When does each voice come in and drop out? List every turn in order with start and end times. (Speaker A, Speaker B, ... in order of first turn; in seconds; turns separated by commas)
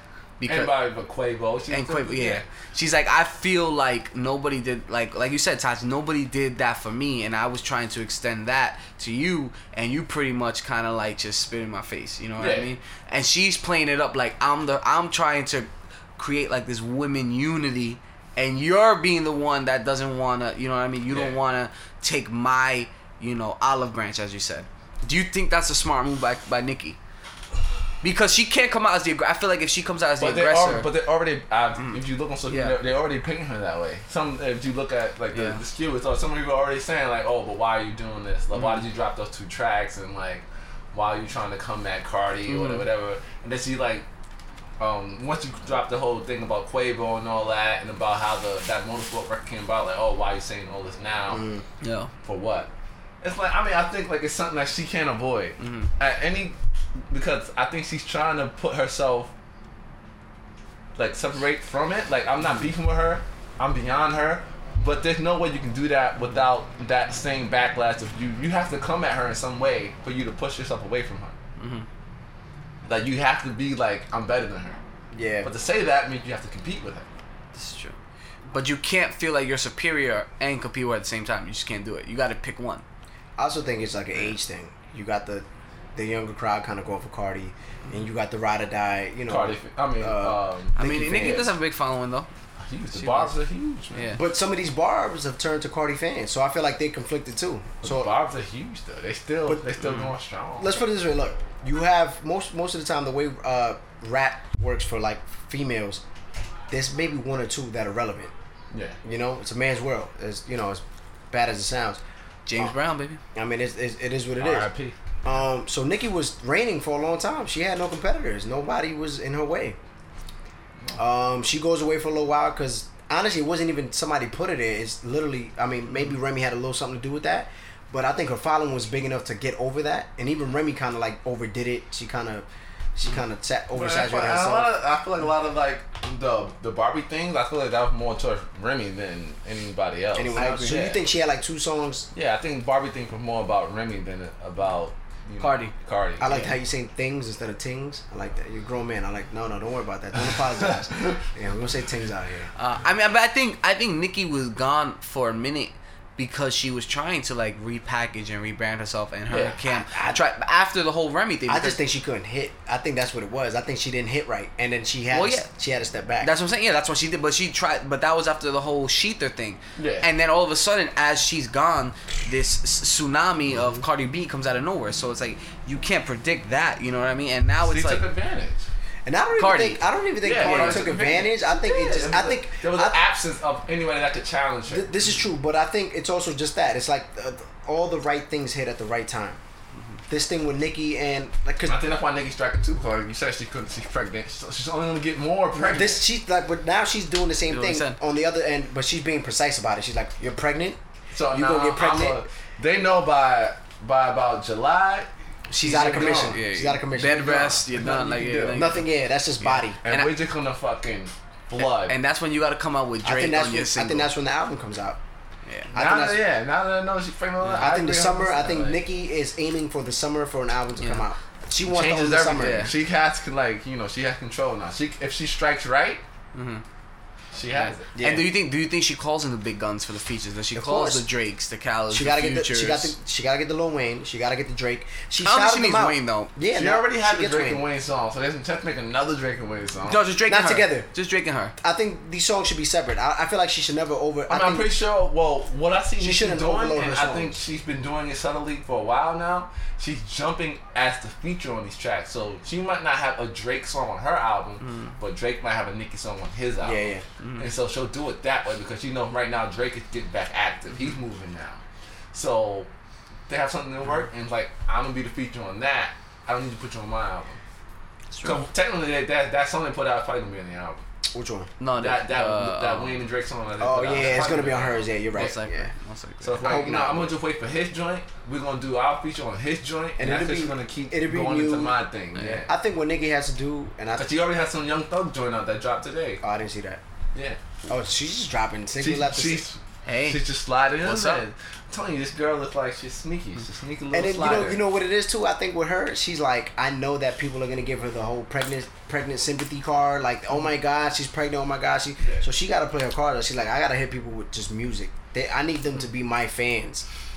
Speaker A: 0.4-0.8, Speaker B: 0.4-2.4, Speaker A: 1.7-27.0, Speaker B: 12.4-12.7, Speaker B: 21.1-21.3, Speaker A: 28.0-30.9, Speaker B: 30.2-44.0, Speaker A: 31.8-32.8, Speaker A: 35.3-35.6, Speaker A: 38.5-38.8, Speaker A: 42.5-42.8, Speaker B: 44.8-51.5, Speaker C: 51.3-51.6, Speaker A: 51.8-52.1, Speaker B: 52.2-52.7, Speaker B: 53.2-56.6, Speaker A: 55.6-55.9, Speaker B: 57.1-59.3, Speaker B: 61.0-71.3, Speaker A: 71.6-71.8, Speaker B: 72.8-74.8, Speaker C: 75.1-75.5, Speaker B: 75.4-77.1, Speaker A: 77.5-78.0, Speaker A: 78.5-82.8, Speaker C: 83.4-91.5, Speaker B: 89.3-91.5, Speaker A: 90.8-92.3, Speaker B: 92.7-94.2, Speaker A: 92.9-93.3, Speaker A: 93.9-94.2, Speaker C: 94.1-98.1, Speaker B: 97.8-100.8, Speaker C: 99.5-99.7, Speaker C: 100.6-106.0, Speaker C: 106.7-108.3, Speaker B: 108.7-109.0, Speaker C: 109.0-112.0, Speaker A: 112.5-113.2, Speaker C: 113.3-114.7, Speaker B: 114.4-115.0, Speaker C: 115.2-119.8, Speaker C: 121.0-134.7, Speaker B: 133.7-141.0, Speaker C: 140.1-142.1, Speaker B: 142.1-146.5, Speaker A: 145.4-145.7, Speaker C: 146.2-152.5, Speaker A: 146.2-146.5, Speaker A: 152.6-161.8, Speaker B: 159.3-159.6, Speaker C: 159.7-160.2, Speaker C: 161.5-166.3, Speaker A: 165.1-165.5, Speaker A: 166.2-178.0, Speaker B: 169.8-170.1, Speaker B: 177.6-178.7, Speaker C: 179.0-183.0, Speaker A: 179.4-180.9, Speaker B: 180.2-184.9, Speaker C: 184.7-189.4, Speaker C: 190.1-191.8, Speaker B: 191.6-196.0, Speaker C: 195.5-200.8, Speaker A: 197.5-198.0, Speaker B: 201.1-205.1, Speaker C: 201.3-202.2, Speaker C: 205.5-207.6, Speaker A: 205.6-208.8, Speaker B: 205.6-206.4, Speaker B: 207.2-208.8, Speaker C: 208.5-209.8, Speaker A: 209.4-210.1, Speaker B: 209.8-212.0, Speaker A: 211.6-214.1, Speaker C: 213.0-215.0, Speaker C: 215.7-216.2, Speaker B: 215.7-218.8, Speaker C: 217.6-222.7, Speaker A: 220.8-221.0, Speaker B: 221.7-226.0, Speaker A: 222.4-222.7, Speaker A: 226.3-226.6, Speaker B: 227.3-227.9, Speaker A: 227.6-232.9, Speaker C: 227.9-228.3, Speaker C: 230.5-231.0, Speaker C: 231.9-237.6, Speaker A: 235.2-236.3, Speaker B: 236.5-240.0, Speaker A: 239.8-241.5, Speaker C: 240.2-240.9, Speaker C: 241.6-244.7, Speaker B: 244.3-261.6, Speaker C: 246.0-247.4, Speaker A: 254.6-254.9, Speaker C: 256.6-257.0, Speaker A: 257.2-257.5, Speaker B: 262.1-262.7, Speaker B: 263.3-267.4, Speaker B: 268.2-270.8, Speaker C: 271.1-271.5, Speaker A: 271.6-273.0, Speaker B: 271.8-275.3, Speaker C: 273.6-275.7, Speaker A: 275.1-276.6, Speaker B: 276.2-282.5, Speaker C: 276.4-277.1, Speaker C: 280.0-281.8, Speaker A: 282.1-282.4, Speaker C: 282.5-284.1, Speaker B: 283.9-286.2, Speaker C: 286.2-286.8, Speaker B: 287.1-287.4, Speaker C: 287.7-289.4, Speaker B: 288.8-294.6, Speaker A: 289.9-290.2, Speaker A: 290.8-291.2, Speaker C: 293.9-306.9, Speaker B: 302.0-302.2